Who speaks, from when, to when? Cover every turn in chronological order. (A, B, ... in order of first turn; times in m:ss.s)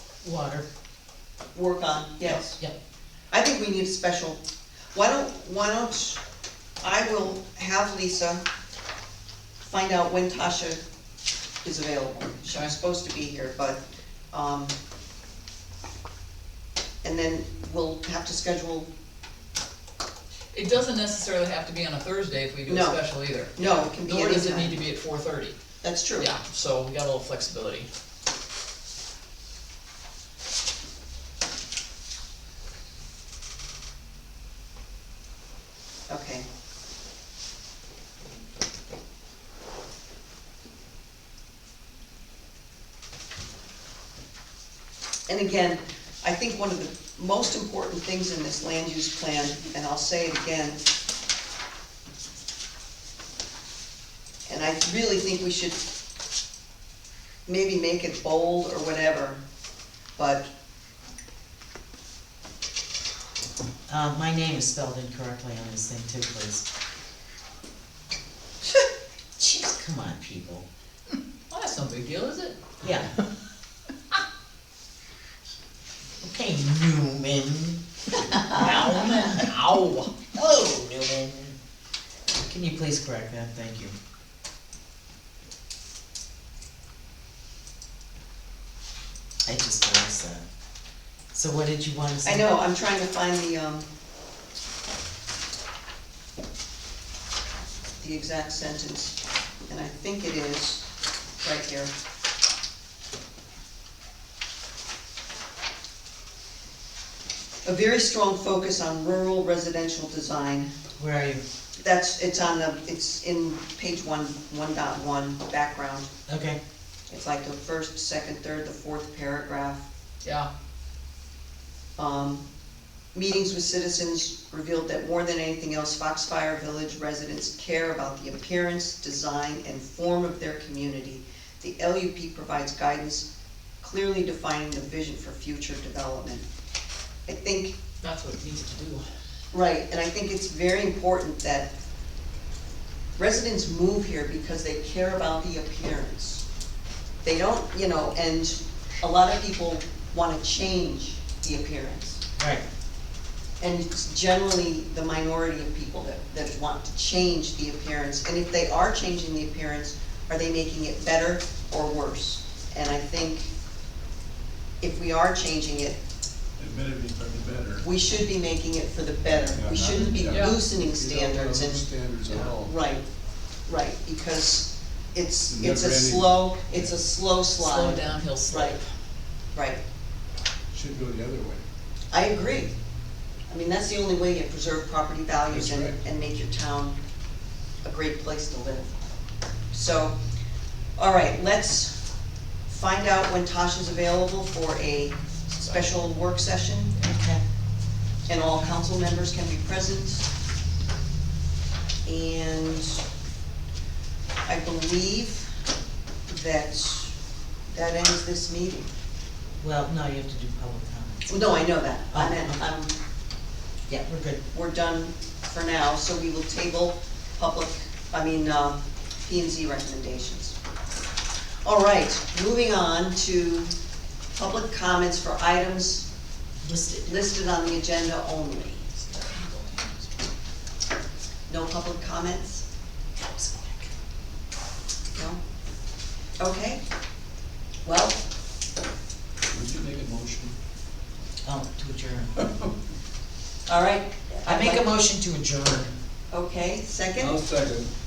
0:00.2-0:00.7 A
0:01.5-0:02.6 B
0:03.3-0:04.4 B
0:04.9-0:06.2 B
0:06.8-0:08.4 B
0:09.6-0:10.8 B
0:11.6-0:14.8 B
0:17.0-0:18.9 B
0:20.5-0:25.6 C
0:22.7-0:23.0 B
0:23.5-0:24.8 B
0:25.8-0:26.3 B
0:26.2-0:27.9 C
0:36.1-0:36.4 B
0:45.3-0:50.8 B
0:54.5-0:55.8 B
0:57.5-0:59.4 B
1:00.2-1:00.5 B
1:03.9-1:06.6 A
1:09.4-1:10.7 A
1:11.5-1:12.6 C
1:12.8-1:13.1 A
1:16.2-1:19.5 A
1:18.5-1:20.1 C
1:20.3-1:21.6 A
1:22.3-1:24.0 A
1:29.5-1:30.4 A
1:31.3-1:32.6 A
1:32.2-1:33.9 B
1:38.0-1:40.9 B
1:41.4-1:41.9 B
1:47.6-1:50.7 B
1:51.0-1:51.4 A
1:51.8-1:56.1 B
1:56.3-1:56.6 A
1:57.1-1:59.9 B
2:00.2-2:00.5 C
2:02.0-2:02.4 B
2:03.1-2:13.3 B
2:13.8-2:16.5 B
2:17.3-2:17.8 B
2:18.0-2:19.1 C
2:19.5-2:21.7 B
2:23.2-2:26.4 B
2:27.2-2:32.2 B
2:32.4-2:32.6 A
2:33.6-2:43.5 B
2:44.8-2:46.0 B
2:46.6-2:47.9 D
2:47.8-2:53.0 B
2:49.4-2:52.8 D
2:50.2-2:50.6 C
2:53.7-2:58.8 B
2:55.5-2:56.9 D
2:57.6-2:58.9 C
2:59.5-2:59.8 B
3:00.7-3:01.6 D
3:02.1-3:02.8 B
3:03.5-3:07.0 B
3:05.5-3:06.0 D
3:07.8-3:09.0 B
3:09.7-3:10.2 B
3:11.0-3:12.0 B
3:12.7-3:17.0 B
3:17.0-3:17.4 A
3:18.3-3:20.3 B
3:22.0-3:23.0 B
3:24.5-3:25.5 B
3:26.3-3:27.2 B
3:27.7-3:28.9 B
3:29.6-3:31.4 A
3:31.3-3:32.9 B
3:32.1-3:32.6 A
3:33.9-3:34.4 A
3:34.5-3:40.6 B
3:41.6-3:43.7 B
3:44.3-3:46.1 B
3:46.6-3:47.2 A
3:47.0-3:48.9 B
3:49.1-3:50.1 C
3:51.5-3:52.6 B
3:53.2-3:53.9 A
3:55.2-3:55.4 B
3:56.4-3:56.8 B
3:57.8-3:58.2 B
3:59.5-4:00.6 D
4:01.4-4:02.4 A
4:03.7-4:04.9 B
4:04.4-4:05.9 A
4:06.3-4:07.4 B
4:07.2-4:07.9 D